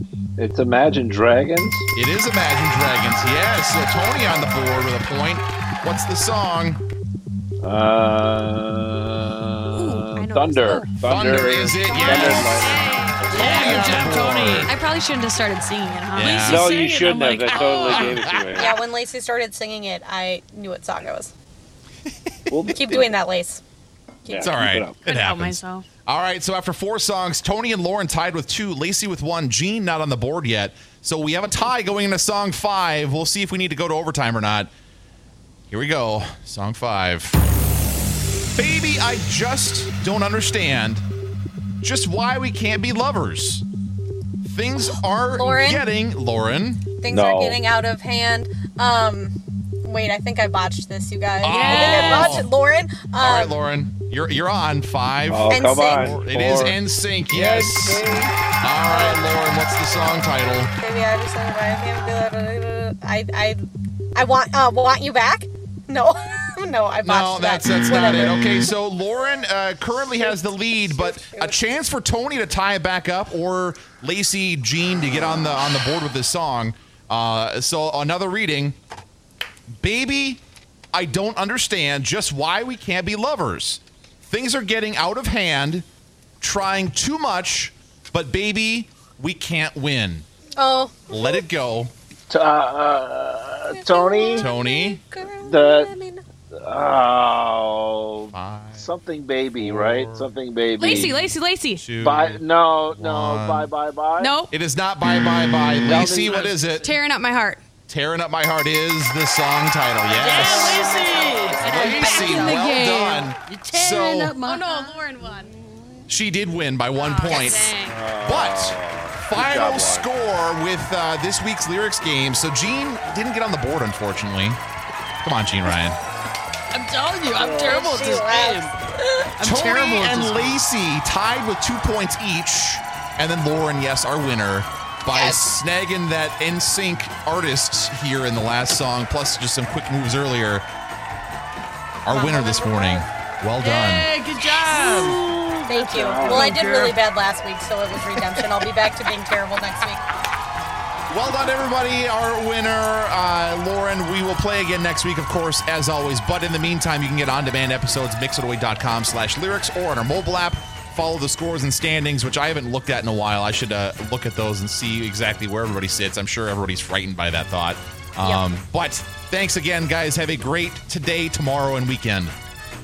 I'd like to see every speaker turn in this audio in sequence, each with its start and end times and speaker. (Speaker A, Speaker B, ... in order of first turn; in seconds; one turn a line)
Speaker A: 0.4-1.9
Speaker B: 1.9-6.8
Speaker A: 7.6-12.8
Speaker C: 9.7-10.9
Speaker B: 11.1-12.7
Speaker C: 11.8-16.7
Speaker D: 13.3-14.7
Speaker B: 13.3-14.7
Speaker B: 16.1-16.8
Speaker A: 16.4-18.8
Speaker D: 16.4-18.2
Speaker C: 17.4-17.9
Speaker B: 17.9-18.4
Speaker E: 18.5-21.3
Speaker A: 22.5-23.1
Speaker E: 22.7-23.6
Speaker E: 24.2-24.5
Speaker A: 24.3-24.9
Speaker B: 24.4-34.7
Speaker C: 25.0-25.9
Speaker B: 35.7-37.4
Speaker B: 38.5-41.0
Speaker B: 41.8-43.6
Speaker B: 44.4-46.8
Speaker E: 45.3-45.9
Speaker E: 47.0-53.6
Speaker A: 47.1-47.6
Speaker B: 51.4-52.5
Speaker C: 51.4-52.4
Speaker B: 53.2-58.0
Speaker A: 55.3-58.3
Speaker E: 55.5-56.2
Speaker B: 58.6-60.7
Speaker E: 58.8-59.4
Speaker E: 60.6-63.6
Speaker E: 64.1-68.7
Speaker B: 67.0-78.8
Speaker E: 70.1-71.6
Speaker B: 79.8-80.4
Speaker B: 80.9-85.9
Speaker B: 86.4-90.3
Speaker E: 90.6-91.4
Speaker B: 91.1-91.9
Speaker A: 92.3-94.5
Speaker E: 93.7-96.2
Speaker B: 94.3-95.0
Speaker A: 95.4-95.9
Speaker A: 96.6-101.1
Speaker B: 98.3-98.9
Speaker B: 99.6-100.3
Speaker C: 100.8-101.9
Speaker B: 100.9-103.7
Speaker A: 102.0-104.3
Speaker C: 104.2-104.5
Speaker B: 104.5-106.9
Speaker A: 105.8-106.7
Speaker C: 106.8-107.6
Speaker B: 107.9-110.9
Speaker D: 110.1-112.5
Speaker E: 110.2-112.5
Speaker C: 111.5-113.3
Speaker B: 111.6-114.3
Speaker D: 113.5-115.9
Speaker C: 114.4-115.6
Speaker B: 116.1-124.6
Speaker C: 116.9-118.0
Speaker A: 117.8-120.1
Speaker B: 125.2-126.0
Speaker D: 126.7-128.8
Speaker E: 127.4-129.3
Speaker D: 129.4-130.6
Speaker B: 129.4-140.7
Speaker E: 135.1-135.4
Speaker B: 142.0-144.1
Speaker C: 142.1-143.0
Speaker D: 143.6-147.0
Speaker C: 144.7-145.2
Speaker E: 145.7-150.0
Speaker A: 145.8-146.6
Speaker B: 151.1-172.3